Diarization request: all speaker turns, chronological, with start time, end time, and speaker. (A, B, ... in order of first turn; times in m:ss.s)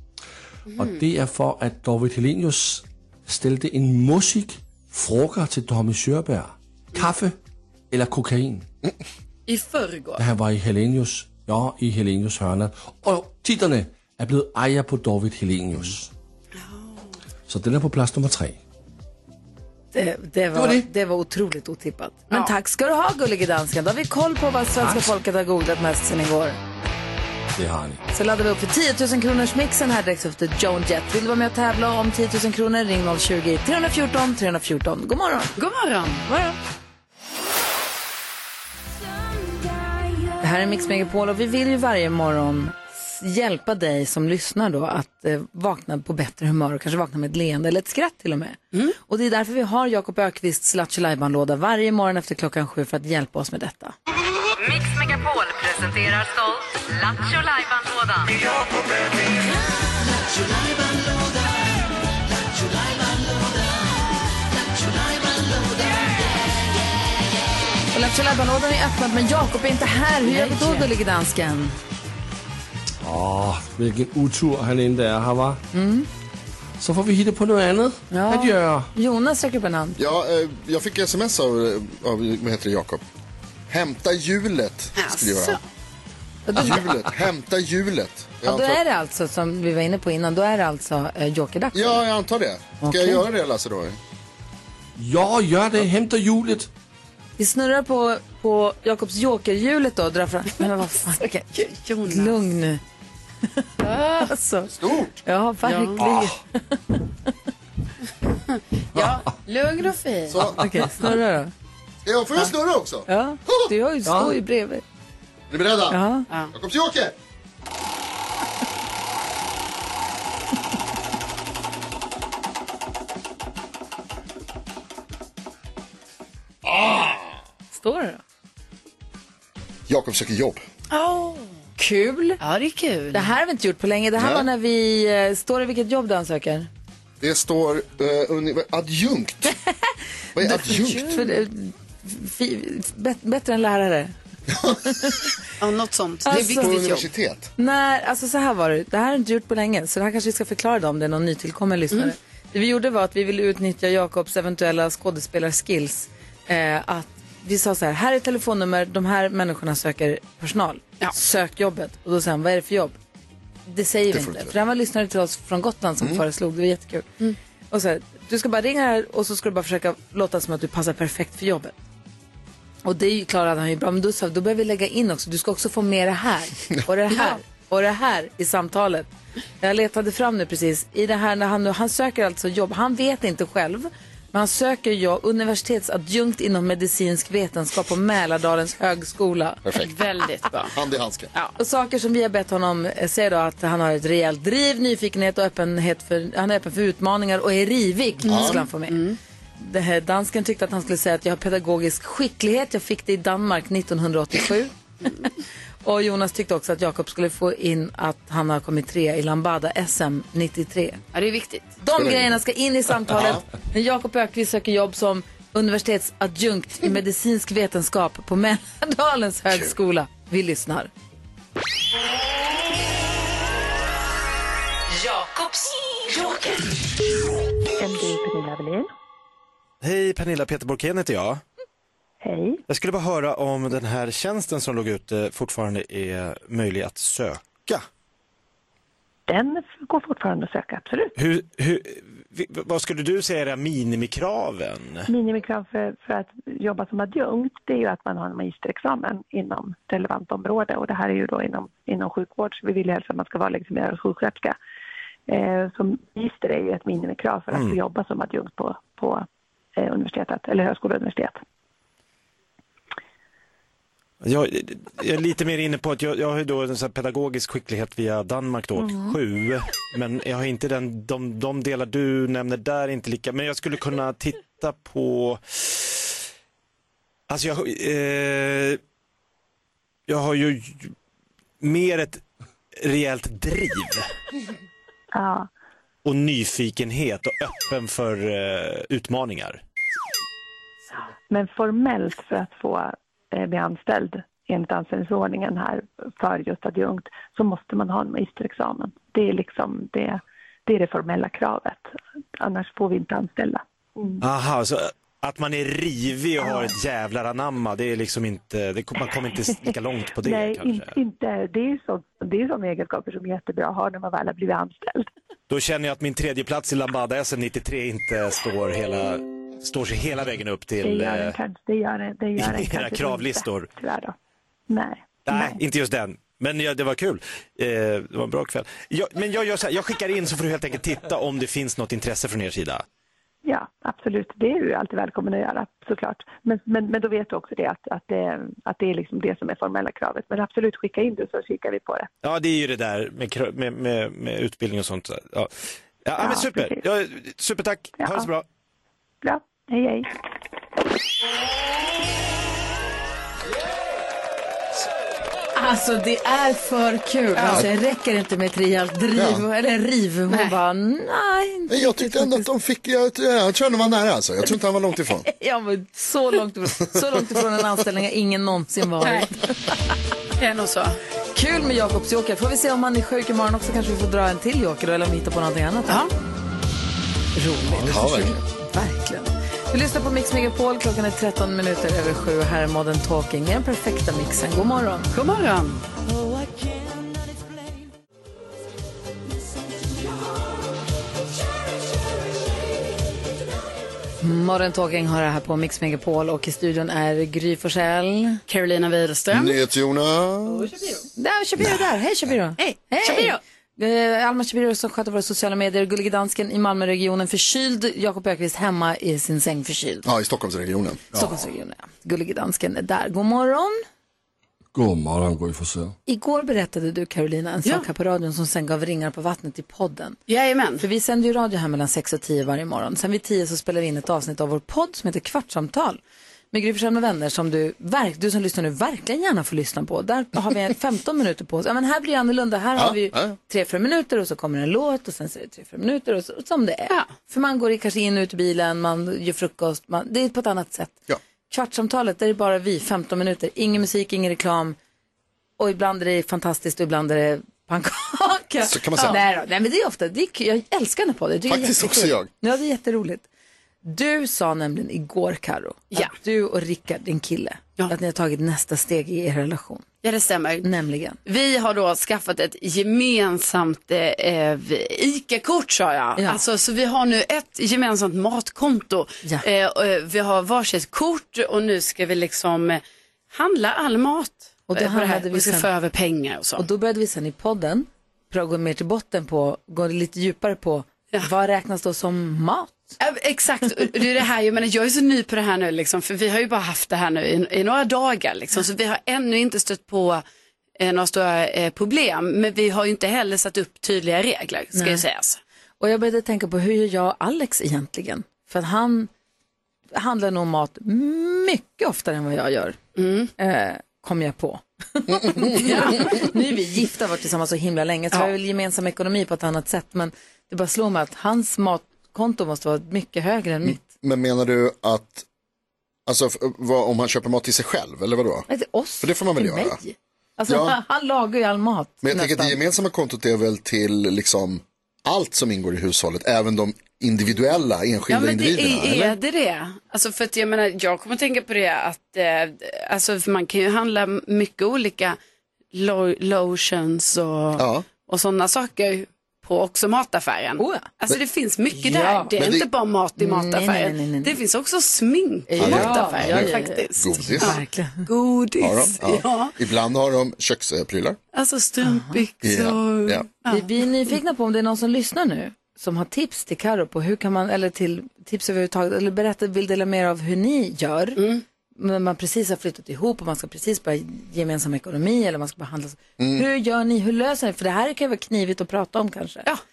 0:00.7-0:01.0 A
0:00.8-0:07.4 B
0:07.9-0:08.7 B
0:09.5-0:10.2 A
0:10.2-0:16.1 B
0:16.7-0:16.9 A
0:17.5-0:18.6 B
0:19.9-0:26.6 C
0:20.5-0:20.9 B
0:24.8-0:25.2 B
0:27.6-0:28.0 B
0:28.1-0:35.5 C
0:35.6-0:36.3 A
0:40.4-0:53.9 C
0:54.6-0:58.3 D
1:07.9-1:11.8 C
1:13.0-1:15.6 B
1:15.7-1:16.1 C
1:16.8-1:18.9 B
1:18.1-1:20.0 C
1:20.0-1:23.0 E
1:23.7-1:25.6 E
1:25.0-1:25.6 A
1:26.5-1:26.8 C
1:26.6-1:28.8 E
1:28.4-1:32.0 C
1:31.7-1:34.0 E
1:32.8-1:33.2 C
1:35.0-1:36.7 B
1:37.4-1:42.8 C
1:41.6-1:42.4 A
1:43.5-1:44.7 C
1:43.8-1:44.3 A
1:44.7-1:45.2 E
1:45.2-1:47.0 C
1:45.7-1:46.0 A
1:46.0-1:46.3 B
1:48.5-1:50.4 A
1:50.3-1:50.6 E
1:50.6-1:51.5 C
1:52.0-1:53.7 E
1:53.1-1:54.8 C
1:54.1-1:54.4 B
1:55.5-1:56.0 E
1:55.9-1:56.3 C
1:56.5-1:57.1 E
2:06.7-2:07.2 E
2:07.7-2:08.2 C
2:09.9-2:10.6 E
2:10.9-2:11.5 A
2:11.8-2:12.4 C
2:12.4-2:13.3 A
2:13.1-2:16.7 C
2:14.2-2:14.5 E
2:17.2-2:19.6 E
2:20.4-2:21.2 E
2:20.4-2:24.1 C
2:24.5-2:24.8 E
2:24.8-2:25.2 C
2:25.6-2:27.1 A
2:26.2-2:26.8 C
2:26.3-2:27.5 E
2:27.6-2:43.0 C
2:43.7-2:47.1 C
2:44.1-2:44.5 E
2:47.7-2:51.7 C
2:52.8-2:59.1 C
2:59.6-3:09.6 C
3:09.6-3:09.9 E
3:09.8-3:10.8 A
3:10.7-3:11.3 E
3:11.6-3:19.0 C
3:18.2-3:18.6 E
3:18.2-3:19.2 A
3:19.6-3:25.3 C
3:25.8-3:31.0 C
3:31.1-3:31.7 A
3:31.8-3:40.9 C
3:32.0-3:32.3 E
3:33.1-3:33.4 E
3:47.8-3:48.9 F
3:49.8-3:51.4 G
3:52.2-3:52.6 F
3:52.7-3:57.9 G
3:59.3-4:01.1 F
4:01.2-4:05.1 G
4:05.1-4:14.6 F
4:15.3-4:21.4 F
4:17.5-4:17.8 G
4:24.2-4:36.0 G
4:37.3-4:38.8 G
4:40.1-4:40.9 G
4:41.6-4:42.2 G
4:42.8-4:44.1 G
4:45.1-4:45.5 F
4:46.0-4:49.6 G
4:51.3-5:04.2 F
5:04.2-5:11.0 G
5:06.4-5:06.7 F
5:10.2-5:15.1 F
5:15.5-5:21.4 G
5:20.8-5:24.1 F
5:22.4-5:23.7 G
5:24.7-5:25.6 F
5:25.2-5:32.8 G
5:33.4-5:42.1 F
5:42.2-5:45.5 G
5:46.0-5:48.4 G
5:46.2-5:46.8 F
5:49.2-5:50.1 F
5:55.6-6:02.5 C
5:57.4-5:57.6 A
5:59.2-5:59.4 E
6:00.3-6:00.6 A
6:01.7-6:05.3 E
6:05.3-6:09.7 C
6:09.0-6:09.3 A
6:10.4-6:11.0 A
6:11.4-6:16.1 C
6:15.9-6:16.1 A
6:17.4-6:25.1 C
6:17.7-6:18.4 E
6:25.1-6:25.8 A
6:34.2-6:38.4 C
6:38.5-6:39.6 A
6:39.3-6:40.7 E
6:41.1-6:50.1 C
6:42.6-6:43.4 A
6:50.0-6:51.3 E
6:51.1-6:53.8 C
6:54.7-6:55.9 B
6:56.1-7:00.2 C
7:00.3-7:00.8 A
7:00.8-7:06.0 C
7:06.5-7:21.0 C
7:12.8-7:13.4 E
7:21.5-7:24.8 C
7:25.6-7:33.3 C
7:28.6-7:29.2 E
7:31.5-7:32.3 E
7:33.8-7:39.9 C
7:40.0-7:40.6 A
7:40.6-7:41.2 C
7:41.2-7:52.8 A
7:53.3-7:56.6 A
7:54.7-7:55.7 C
7:56.6-8:03.0 C
8:03.0-8:10.2 A
8:10.8-8:15.4 A
8:14.7-8:15.0 C
8:15.8-8:19.1 C
8:19.9-8:22.8 C
8:23.0-8:23.3 A
8:23.4-8:33.9 C
8:25.6-8:26.3 A
8:33.6-8:35.3 E
8:36.1-8:38.5 E
8:38.5-8:42.6 C
8:39.0-8:39.8 E
8:40.5-8:40.8 E
8:42.0-8:49.2 E
8:48.1-8:55.2 A
8:55.7-9:09.5 A
8:57.6-8:57.8 E
9:00.6-9:00.9 C
9:01.8-9:02.3 C
9:02.4-9:02.6 E
9:03.2-9:04.3 C
9:05.5-9:08.1 C
9:05.6-9:07.6 E
9:08.6-9:11.2 E
9:11.3-9:13.7 A
9:11.8-9:12.2 C
9:12.4-9:13.3 E
9:13.5-9:21.2 C
9:21.2-9:21.4 A
9:21.8-9:29.5 C
9:26.2-9:26.4 E